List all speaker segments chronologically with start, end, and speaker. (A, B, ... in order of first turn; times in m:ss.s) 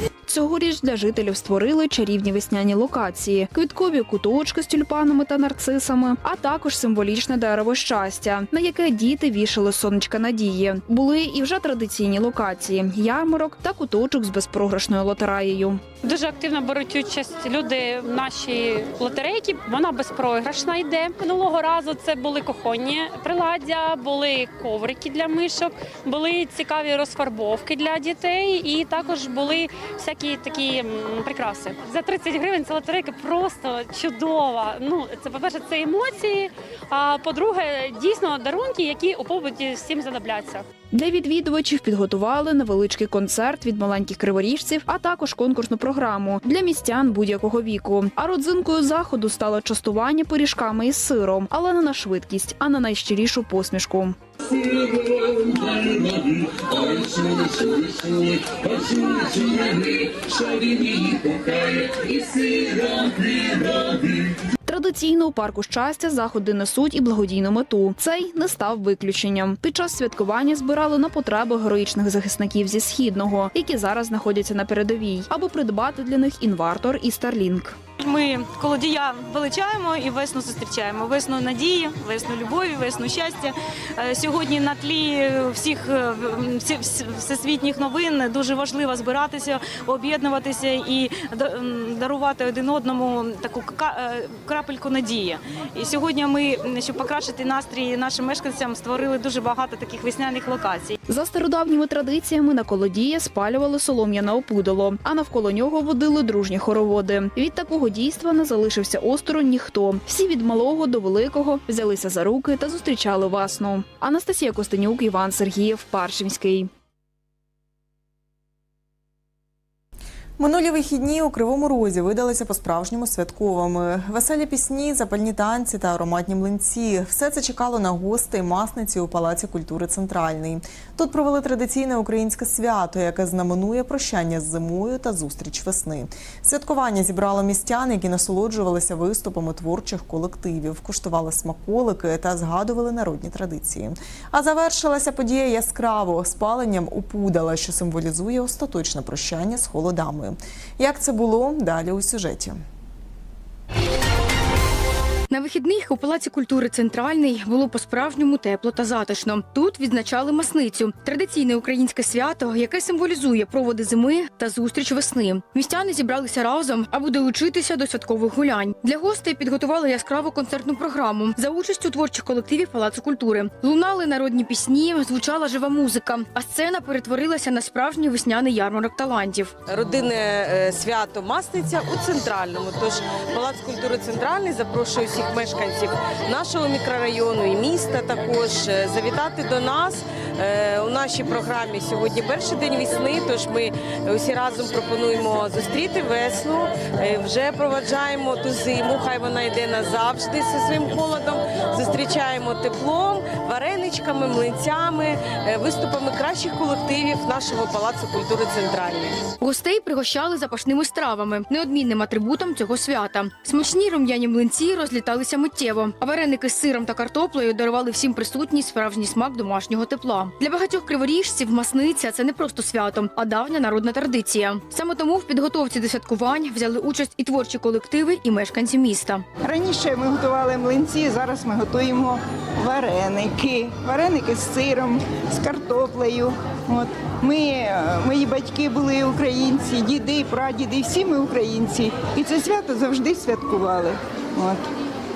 0:00.3-0:15.9 A
0:16.0-0:40.7 B
0:40.9-0:54.2 A
1:04.7-1:17.8 A
1:18.0-1:40.9 C
1:41.1-1:56.7 A
2:00.4-2:32.6 D
2:35.3-2:59.6 E
2:59.7-3:29.2 F
3:29.4-3:49.2 E
3:49.4-4:04.6 G